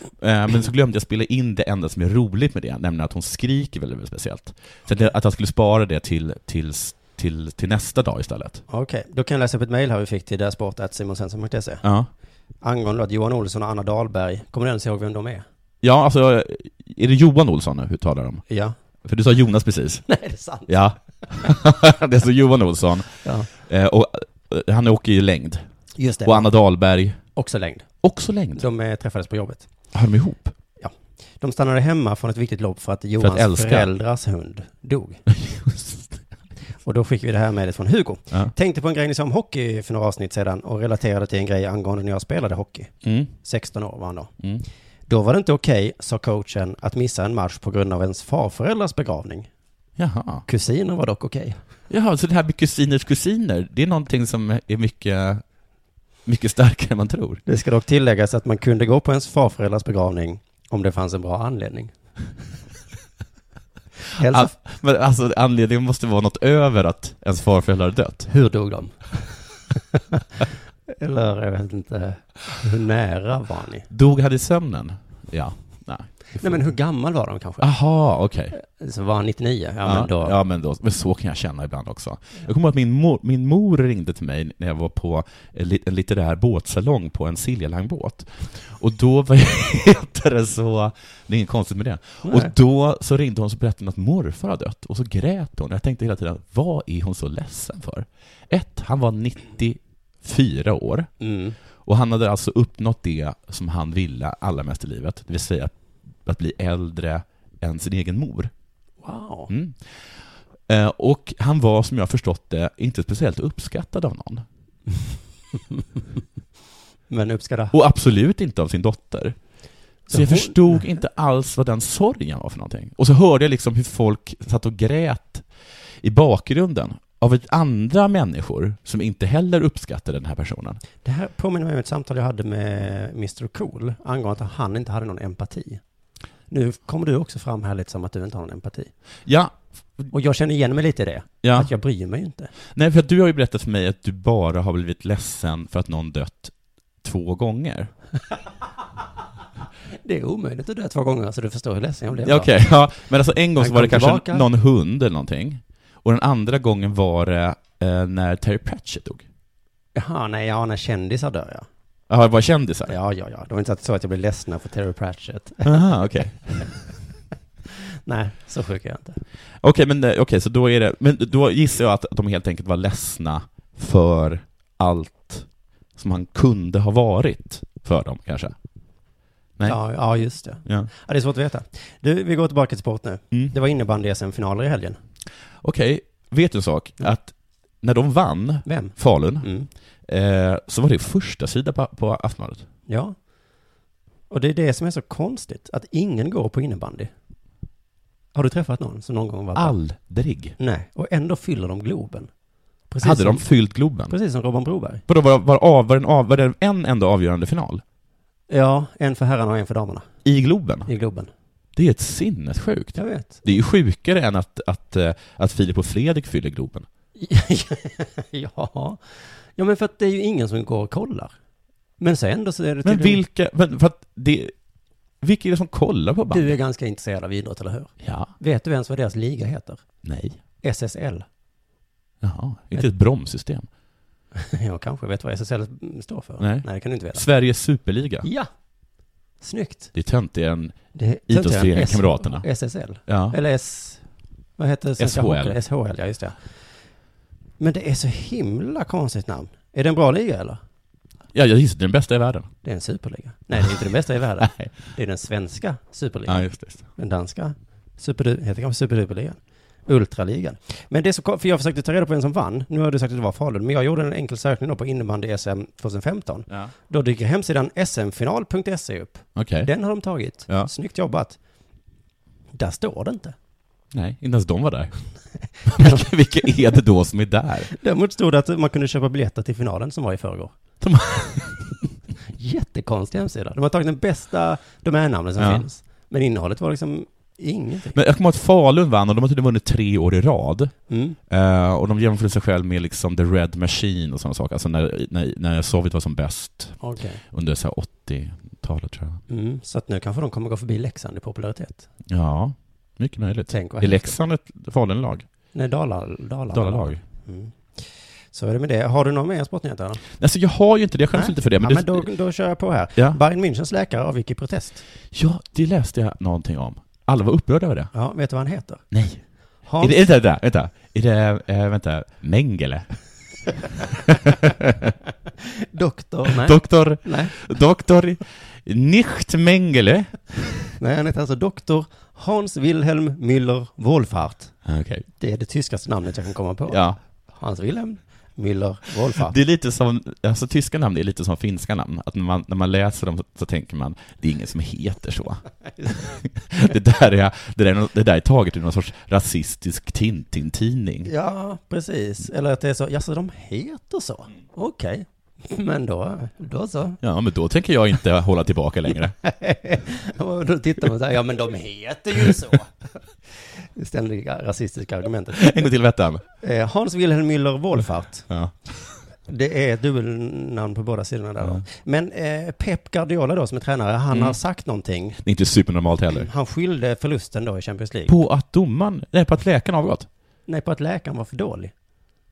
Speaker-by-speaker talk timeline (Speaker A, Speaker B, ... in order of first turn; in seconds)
Speaker A: 0.2-8.6, 11.8-12.1, 15.8-18.4, 19.0-20.1, 20.7-25.6, 26.2-27.2, 28.0-28.6, 29.9-30.5, 33.2-33.9, 35.3-36.2, 43.0-43.3, 44.4-44.6, 50.0-50.4, 51.9-55.4, 56.2-57.4, 64.2-68.3, 73.9-76.7, 77.6-78.5, 79.8-101.1, 101.8-105.7, 106.2-108.5, 109.5-109.9, 110.7-114.4, 117.7-119.4, 120.1-125.5, 126.0-130.8, 139.2-140.1, 141.4-141.7, 142.7-147.9, 152.2-159.2, 162.1-162.9, 165.6-166.7, 169.6-178.5, 185.6-189.5, 190.1-192.7, 199.5-200.5, 203.0-204.1, 205.1-207.8, 210.2-210.9, 211.8-216.9, 222.8-224.5, 225.2-226.5, 228.0-228.3, 230.0-230.4, 232.2-233.7, 236.4-238.3, 239.9-242.5, 243.1-243.4, 245.0-245.6, 251.3-252.5, 254.4-254.7, 256.3-256.9, 269.3-269.7, 273.9-274.9, 275.6-277.7, 280.8-281.7, 285.4-285.6, 287.9-296.8, 297.3-299.2, 302.1-305.2, 306.5-307.0, 310.2-312.1, 315.1-317.9, 318.9-319.2, 319.8-322.9, 324.1-324.9, 326.3-330.7, 334.6-335.1, 336.7-337.0, 339.1-351.1, 357.0-359.1, 365.4-366.2, 368.3-368.6, 374.1-374.4, 375.2-376.3, 378.1-380.1
Speaker B: 8.7-11.8, 12.6-15.4, 18.5-18.7, 20.1-20.8, 23.2-23.5, 25.9-26.5, 27.3-27.9, 28.5-29.7, 30.8-35.2, 36.8-44.3, 45.1-49.5, 50.5-51.6, 57.5-61.9, 64.2-64.5, 68.3-69.3, 70.9-73.9, 76.4-77.7, 78.5-80.3, 92.2-92.5, 101.2-101.6, 109.0-109.5, 117.1-117.7, 120.1-120.8, 131.0-135.8, 136.5-138.9, 140.1-142.5, 150.0-152.5, 153.6-154.5, 159.9-161.7, 162.9-165.9, 168.1-169.2, 179.6-185.0, 188.6-189.7, 192.9-193.2, 194.3-197.1, 198.3-199.8, 200.6-202.3, 202.9-203.5, 204.1-205.0, 208.5-210.1, 210.8-211.3, 212.9-213.4, 217.2-221.3, 222.0-223.2, 226.3-229.8, 230.6-231.2, 234.3-237.2, 238.2-238.5, 239.4-239.9, 240.9-244.0, 244.6-246.4, 247.6-250.6, 252.6-271.4, 272.5-273.3, 275.7-276.1, 277.7-280.5, 282.3-288.0, 290.9-291.2, 296.8-297.2, 299.3-301.9, 303.5-304.1, 305.5-310.0, 311.1-314.8, 317.9-318.8, 319.6-320.0, 325.7-327.3, 330.8-334.6, 335.2-339.3, 351.0-357.0, 359.2-362.7, 363.8-365.7, 366.4-368.3, 369.3-375.2, 376.1-378.2, 380.4-381.7